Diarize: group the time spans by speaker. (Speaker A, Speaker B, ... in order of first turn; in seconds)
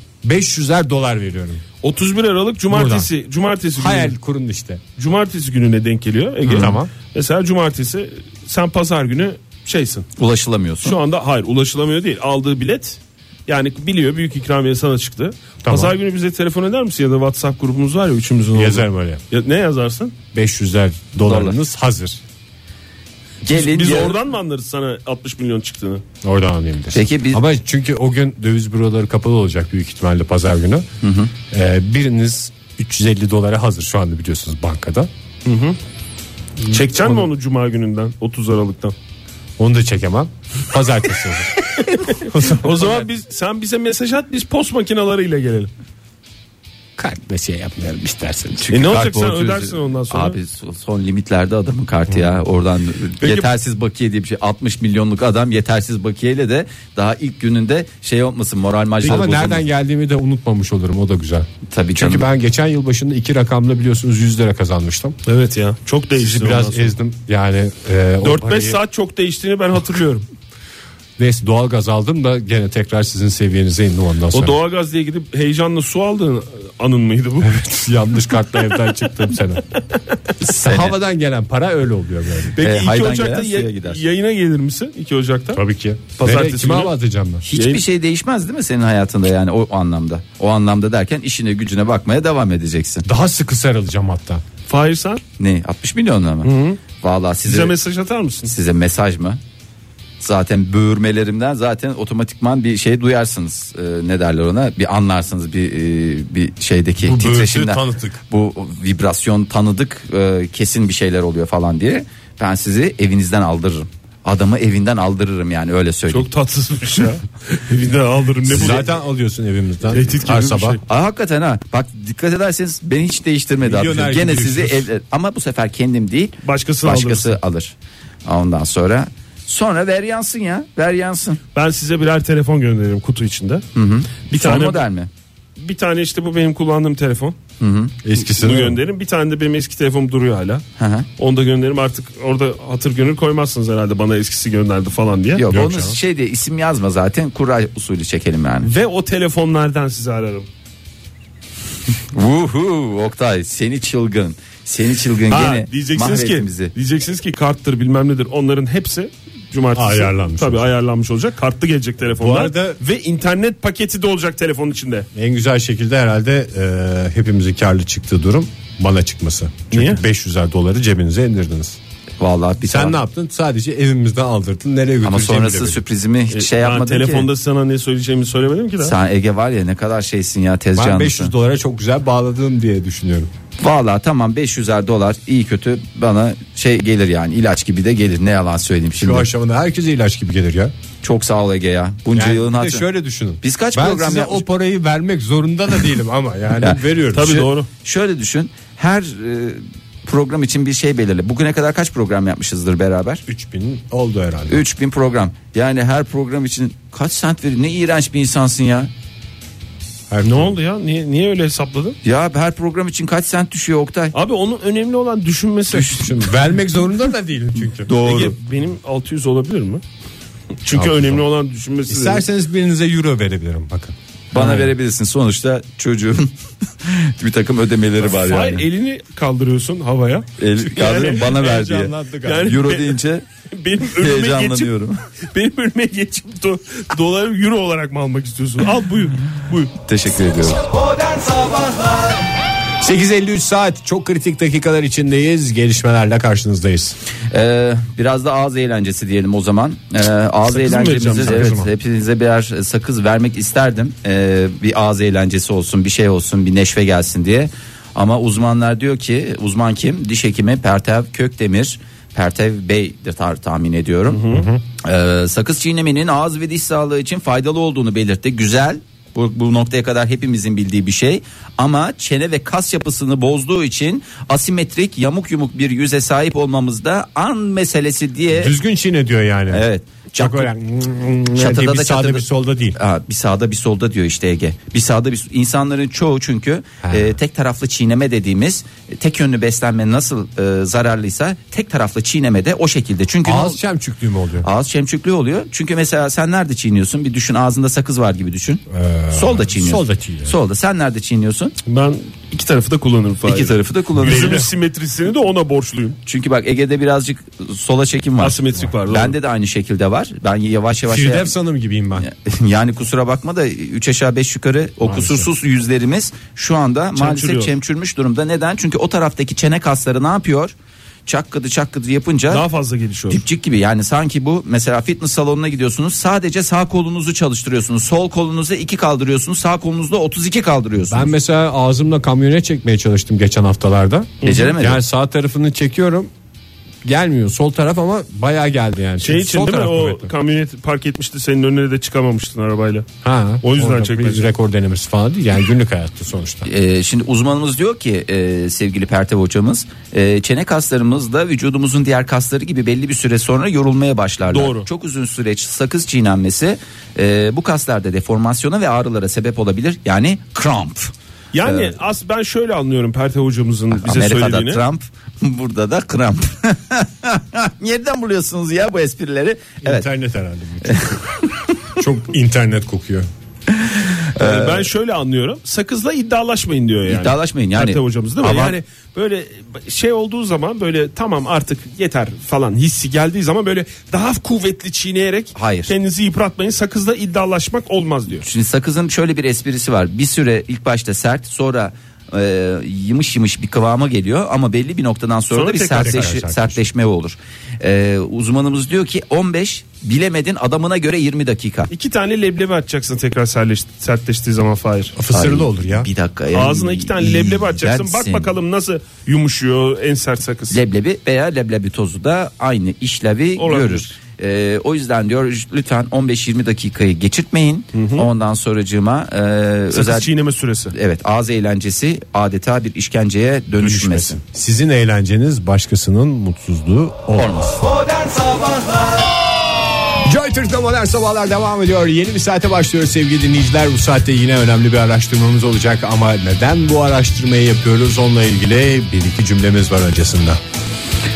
Speaker A: 0.2-1.6, 2.7-3.1, 3.7-4.8, 6.5-6.9, 15.7-15.9, 18.5-19.2, 20.3-22.2, 26.2-30.9, 31.5-35.1, 36.6-37.3, 39.6-43.0, 47.0-48.7, 59.0-65.2, 66.2-68.8, 71.2-74.6, 77.4-79.7, 80.6-82.6, 85.5-87.4, 93.0-94.4, 107.0-108.2, 118.5-120.8, 123.6-124.9, 138.0-138.8, 145.5-146.0, 159.7-160.7, 162.2-162.8, 165.1-171.8, 172.6-175.8, 180.8-183.3, 189.0-190.7, 192.1-197.5, 203.3-204.6, 210.1-210.6, 215.7-218.3, 220.7-221.2, 221.9-224.7, 231.3-232.6, 242.8-247.0, 251.2-251.7, 264.3-264.6, 278.3-279.6, 280.2-282.8, 286.8-287.2, 293.2-294.5, 298.7-300.4, 304.0-304.5, 310.9-312.1, 314.8-315.3, 330.9-336.1, 336.8-340.1, 343.0-346.5, 369.6-371.1, 371.8-373.1, 395.7-396.6, 404.9-405.9, 423.6-427.6, 430.1-440.4
Speaker B: 1.8-4.1, 5.0-10.1, 10.8-20.1, 23.5-26.0, 35.5-35.8, 36.7-39.0, 41.8-45.7, 48.7-50.4, 53.2-53.5, 65.3-66.9, 68.2-70.3, 74.3-77.7, 82.5-85.6, 86.2-86.9, 87.5-87.8, 94.7-95.2, 96.4-96.8, 97.5-98.5, 116.1-118.9, 119.9-120.8, 126.4-127.4, 131.6-133.6, 134.3-134.9, 135.6-137.4, 138.3-140.6, 141.2-145.4, 148.6-150.5, 155.3-165.1, 169.7-170.0, 176.3-178.9, 197.1-197.7, 210.2-212.0, 214.1-216.2, 217.9-219.8, 220.6-222.2, 228.0-233.0, 233.5-234.7, 235.3-239.7, 250.5-251.6, 264.1-264.4, 301.7-306.0, 308.2-309.1, 317.0-317.5, 322.3-323.2, 339.0-342.9, 343.4-344.3, 354.3-354.7, 361.3-364.6, 374.2-388.2, 395.3-396.1, 401.7-404.9, 406.3-410.6, 413.4-413.9, 417.7-418.1, 419.7-420.7
Speaker C: 6.5-6.7, 10.2-10.9, 21.2-21.6, 23.4-24.2, 26.9-27.4, 31.0-31.3, 48.6-59.7, 61.7-62.3, 80.4-81.0, 82.6-84.0, 87.5-93.0, 95.4-97.7, 98.5-99.4, 100.2-116.3, 120.9-127.7, 128.2-131.4, 133.8-135.1, 137.6-137.9, 140.8-141.1, 145.4-148.7, 152.1-156.7, 172.2-173.0, 175.0-177.3, 178.8-181.3, 183.6-189.3, 191.0-192.9, 193.4-194.4, 196.6-203.2, 204.5-208.9, 212.0-214.1, 217.9-218.3, 224.3-226.3, 226.8-228.6, 230.4-233.3, 234.0-235.0, 239.8-242.1, 247.3-264.2, 264.8-278.6, 279.5-280.5, 281.4-293.6, 294.4-301.6, 303.2-304.4, 306.1-311.3, 312.0-320.5, 321.1-322.4, 323.1-331.1, 334.2-334.8, 346.5-360.9, 361.4-361.7, 363.7-369.9, 370.6-371.0, 373.5-374.7, 376.9-378.6, 385.4-385.7, 388.1-401.7, 405.1-408.3, 410.5-420.1, 420.7-424.2, 427.2-428.7